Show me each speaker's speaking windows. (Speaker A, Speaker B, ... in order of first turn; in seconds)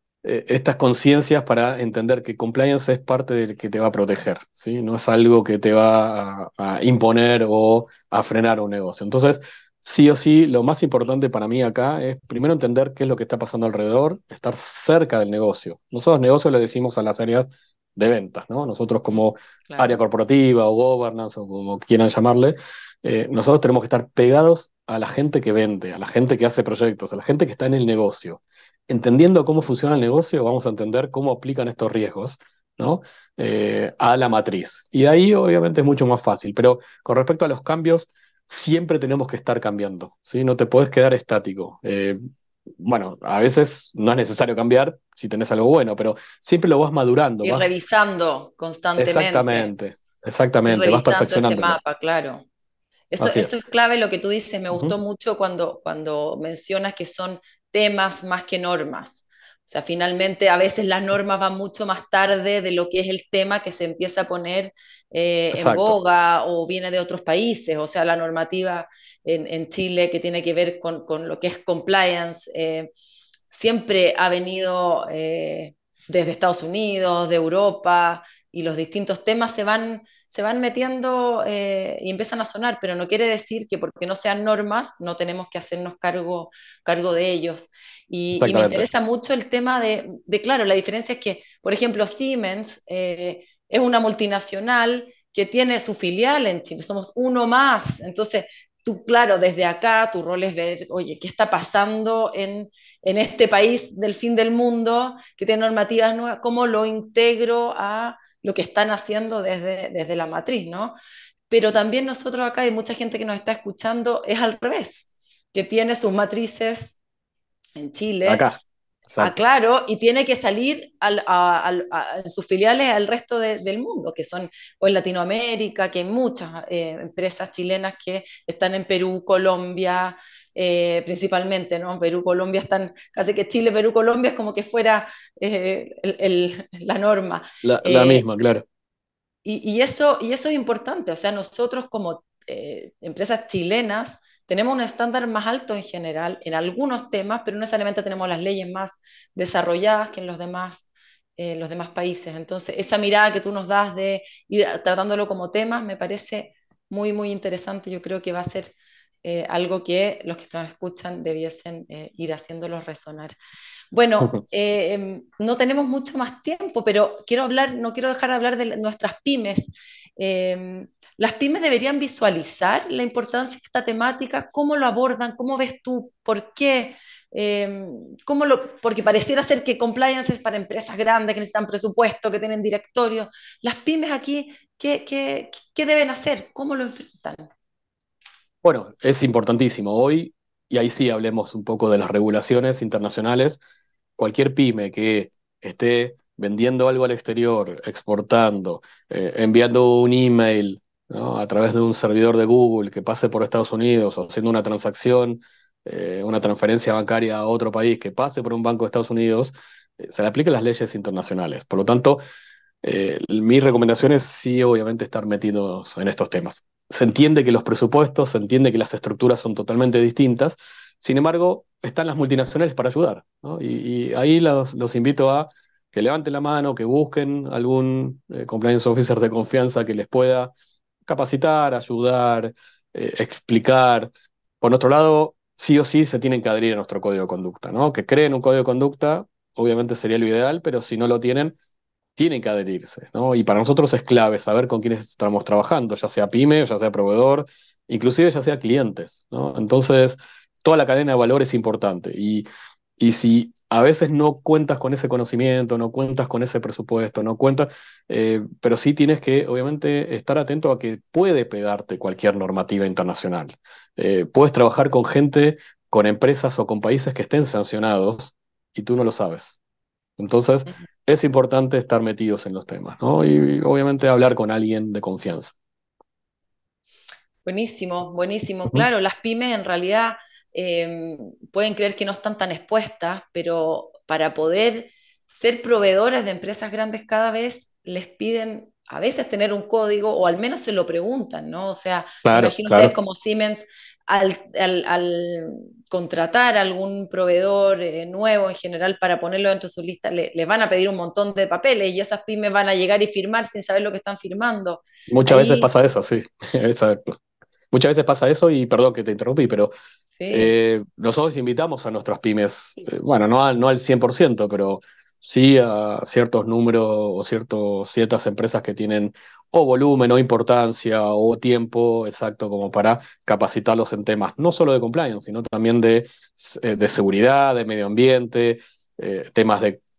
Speaker A: 0.2-42.2, 42.8-47.7, 49.0-51.8, 53.2-53.6, 65.5-66.0, 88.4-88.9, 118.3-118.6, 119.1-119.3, 137.6-138.7, 188.6-193.6, 194.2-212.2, 212.8-230.5, 231.1-241.6, 242.2-252.5, 253.0-269.6, 270.2-275.6, 292.2-292.9, 305.1-307.2, 307.7-309.7, 310.3-329.8
Speaker B: 19.1-20.0, 47.4-49.7, 50.6-52.5, 53.1-72.9, 73.5-111.0, 111.5-117.0, 117.8-118.4, 119.2-138.2, 139.4-163.3, 163.9-187.5, 277.4-305.7, 310.2-310.5